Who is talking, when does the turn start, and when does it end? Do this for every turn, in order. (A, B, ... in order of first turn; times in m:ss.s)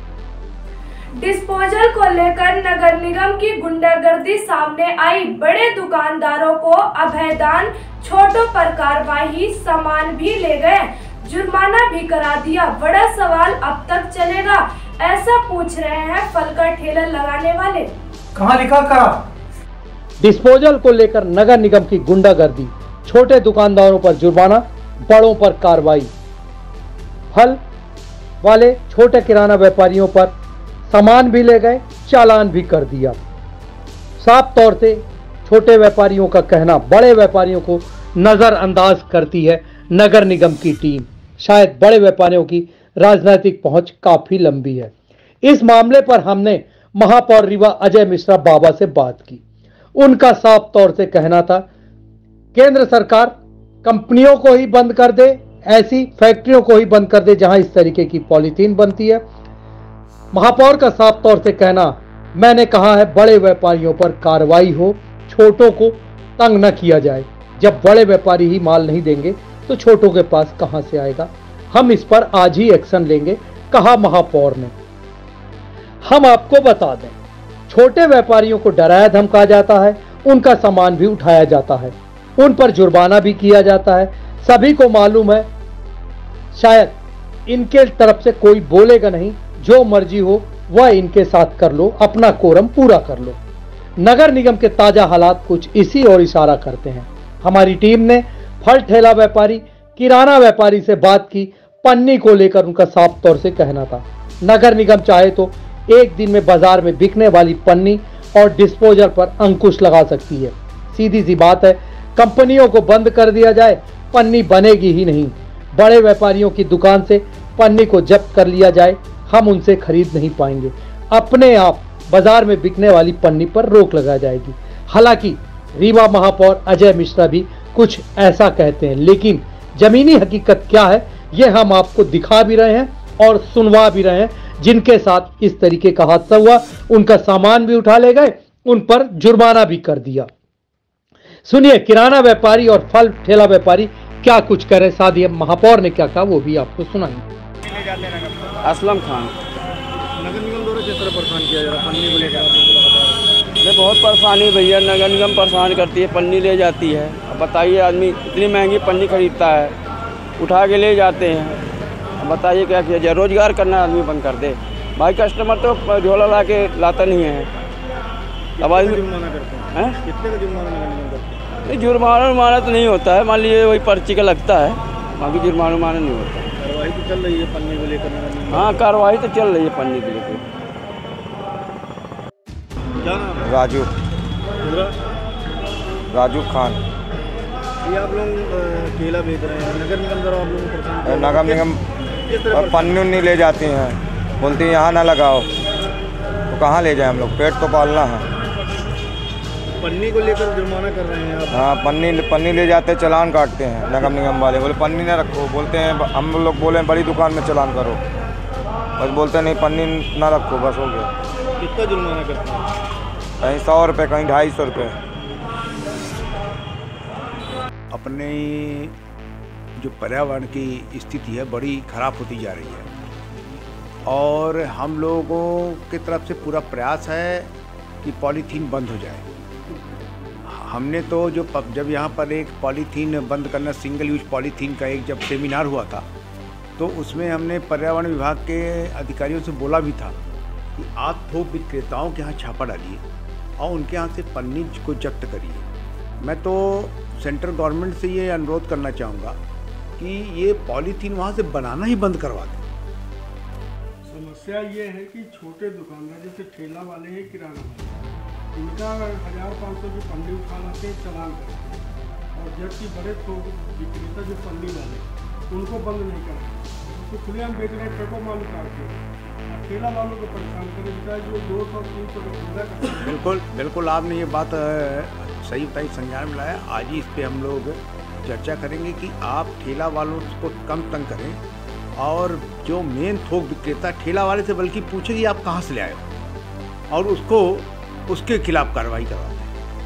0:01.2-0:17.9 A
0:18.4-0:19.2 B
0:20.2-0:26.1 B
0:27.3-0:27.6 B
0:28.4-0:30.3 B
0:30.9-0:33.2 B
0:34.2-0:44.9 B
0:45.4-0:49.4 B
0:50.0-0:51.6 B
0:52.5-0:59.2 B
1:00.3-1:14.7 B
1:16.1-1:17.2 B
1:17.7-1:25.5 B
1:26.5-1:33.4 B
1:34.0-2:20.3 B
2:21.5-2:27.2 B
2:27.9-2:28.4 C
2:28.6-2:29.4 D
2:30.2-2:33.2 C
2:33.6-2:39.8 D
2:40.4-2:41.6 D
2:42.2-2:47.5 D
2:48.6-2:51.4 C
2:48.6-2:49.1 D
2:49.7-2:50.0 D
2:51.7-2:56.5 D
2:56.6-2:58.8 C
2:58.5-3:00.4 D
3:03.0-3:03.4 C
3:03.4-3:03.9 E
3:04.6-3:05.0 C
3:06.1-3:06.8 E
3:07.8-3:11.6 C
3:11.0-3:11.8 E
3:12.3-3:13.0 C
3:12.5-3:15.5 E
3:16.5-3:18.3 E
3:19.8-3:21.6 C
3:21.5-3:28.0 E
3:29.0-3:31.1 E
3:31.6-3:32.7 C
3:33.4-3:35.0 E
3:37.9-3:38.9 F
3:39.8-3:42.9 F
3:44.1-3:47.5 F
3:48.0-3:49.2 F
3:50.5-3:56.1 F
3:56.8-4:00.2 F
4:00.8-4:03.0 F
4:03.6-4:05.7 F
4:06.2-4:09.4 F
4:10.0-4:12.6 F
4:14.1-4:18.0 G
4:18.5-4:21.8 G
4:22.4-4:33.3 G
4:33.0-4:41.4 F
4:42.0-4:46.1 F
4:46.9-4:49.5 F